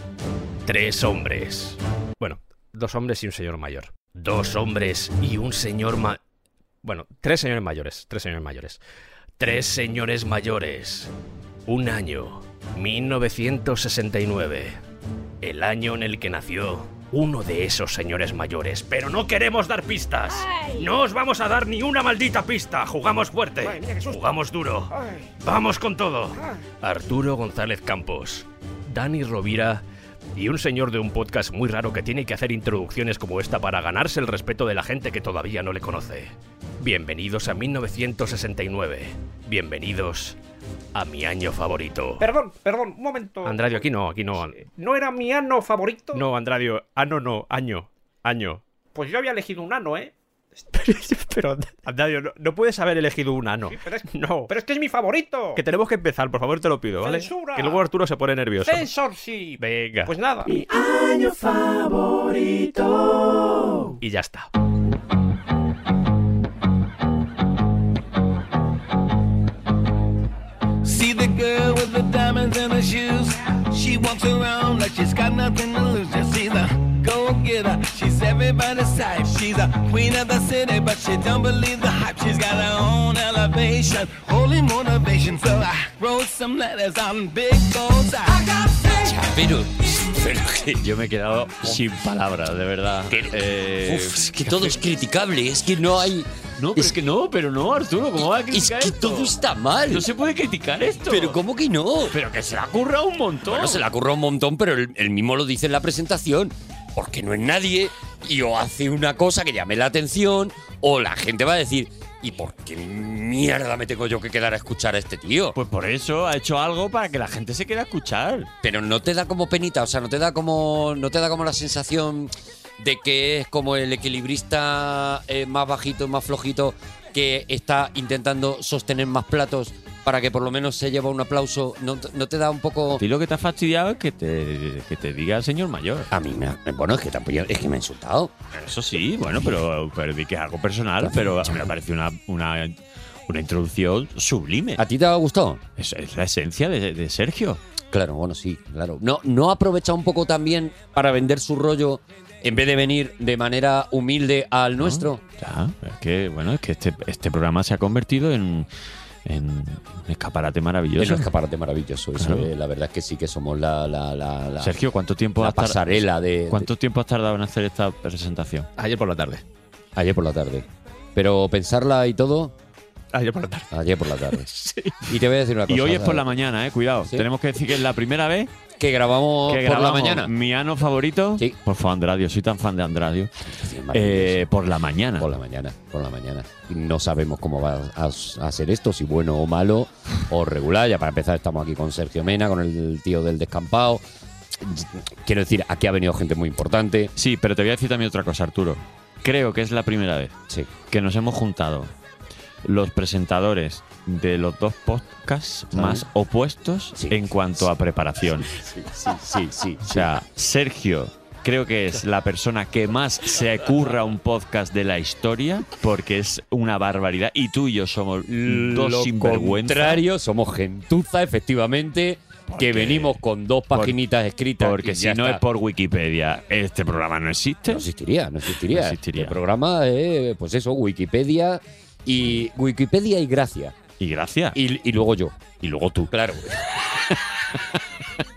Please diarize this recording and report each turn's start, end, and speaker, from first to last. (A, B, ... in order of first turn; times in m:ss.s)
0:00.7-0:06.2 A
0:06.8-0:08.8 A
0:09.4-0:11.1 A
0:11.7-0:14.8 A
0:15.4-0:29.8 A
0:30.3-0:40.4 A
0:41.0-0:42.3 A
0:42.2-0:43.8 B
0:43.4-0:44.6 A
0:44.5-0:46.3 B
0:46.1-0:48.6 A
0:48.9-0:52.6 B
0:51.9-0:53.7 A
0:53.6-0:55.6 B
0:55.6-0:58.8 A
0:57.0-0:57.8 B
0:58.6-1:03.9 B
0:59.6-1:00.1 A
1:04.0-1:04.5 A
1:10.8-1:28.5 C
1:28.8-1:30.9 D
1:30.8-1:34.8 E
1:33.1-1:37.0 D
1:36.6-1:39.3 E
1:38.5-1:40.1 D
1:39.9-1:41.4 E
1:41.1-1:42.2 D
1:42.1-1:43.8 E
1:43.5-1:55.6 D
1:55.6-1:58.5 E
1:58.6-2:13.0 D
2:13.0-2:16.1 E
2:16.1-2:18.3 D
2:18.5-2:22.8 E
2:21.0-2:21.7 D
2:23.3-2:24.8 E
2:24.8-2:25.6 D
2:25.8-2:27.6 E
2:27.9-2:35.2 D
2:34.8-2:38.7 E
2:39.2-2:41.3 E
2:41.0-2:44.8 D
2:42.2-2:42.5 E
2:44.6-2:48.7 E
2:45.4-2:46.7 D
2:48.8-2:49.4 A
2:49.9-2:52.5 D
2:53.1-2:53.7 A
2:53.7-2:54.5 D
2:54.3-2:54.9 A
2:55.1-2:56.3 D
2:55.7-2:58.5 E
2:58.8-3:00.3 D
2:59.5-3:03.3 E
3:03.5-3:04.5 D
3:03.9-3:05.3 E
3:05.2-3:14.0 D
3:14.6-3:17.1 D
3:17.2-3:20.3 E
3:20.9-3:21.9 E
3:22.6-3:28.5 E
3:25.7-3:26.0 D
3:27.0-3:27.7 D
3:28.5-3:30.1 D
3:29.9-3:40.0 E
3:38.3-3:45.4 D
3:42.5-3:43.2 E
3:43.7-3:44.0 E
3:44.6-3:47.8 E
3:47.7-3:53.8 D
3:48.7-3:49.4 E
3:54.0-3:54.6 E
3:54.5-3:55.4 D
3:55.6-3:56.1 E
3:56.1-3:57.1 D